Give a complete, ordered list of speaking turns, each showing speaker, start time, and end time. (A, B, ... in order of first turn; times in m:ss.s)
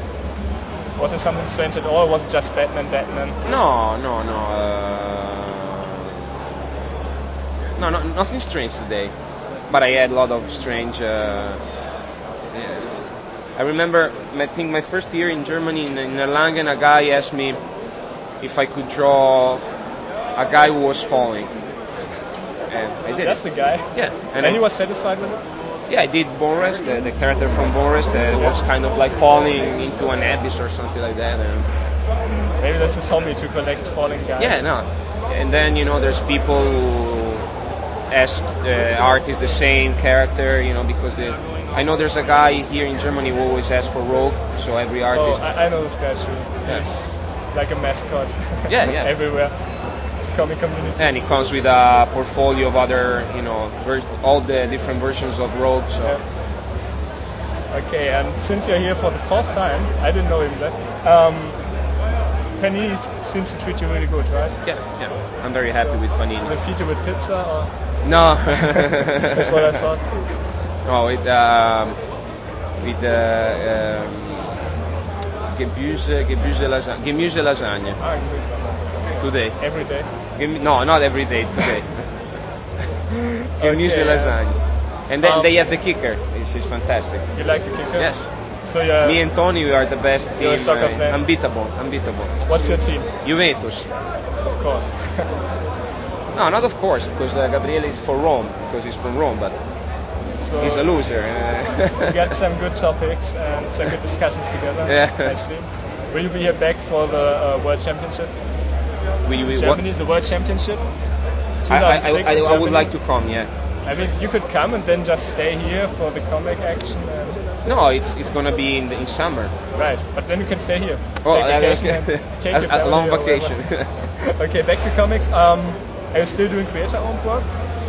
0:01.0-0:03.4 A
0:03.4-0:06.1 B
0:07.8-0:09.1 B
0:09.7-0:11.6 B
0:12.5-0:13.0 B
0:13.6-0:17.6 B
0:18.4-0:19.6 B
0:20.4-0:21.5 B
0:22.7-0:24.6 B
0:23.2-0:25.4 A
0:25.9-0:31.7 B
0:32.6-0:34.6 A
0:34.4-0:37.5 B
0:38.1-0:45.4 B
0:45.1-0:51.1 A
0:48.7-0:49.1 B
0:51.0-0:56.2 B
0:57.7-1:01.6 A
1:02.6-1:05.0 A
1:04.6-1:06.5 B
1:05.7-1:10.4 A
1:08.0-1:09.5 B
1:10.8-1:12.0 B
1:12.8-1:14.6 B
1:15.5-1:18.0 B
1:18.0-1:20.1 A
1:19.2-1:19.8 B
1:20.4-1:22.3 B
1:23.6-1:24.6 A
1:23.6-1:27.4 B
1:25.2-1:25.5 A
1:27.4-1:29.2 A
1:27.9-1:28.3 B
1:29.0-1:32.5 B
1:30.4-1:31.2 A
1:32.5-1:33.1 A
1:33.2-1:33.9 B
1:34.5-1:35.3 A
1:36.3-1:39.6 B
1:40.4-1:41.0 A
1:40.6-1:42.1 B
1:42.0-1:48.4 A
1:44.9-1:45.4 B
1:49.2-1:49.8 B
1:49.5-1:50.9 A
1:51.6-1:52.9 A
1:51.7-1:53.5 B
1:53.8-1:57.4 A
1:57.6-1:59.5 B
1:59.7-2:07.5 A
2:01.2-2:03.9 B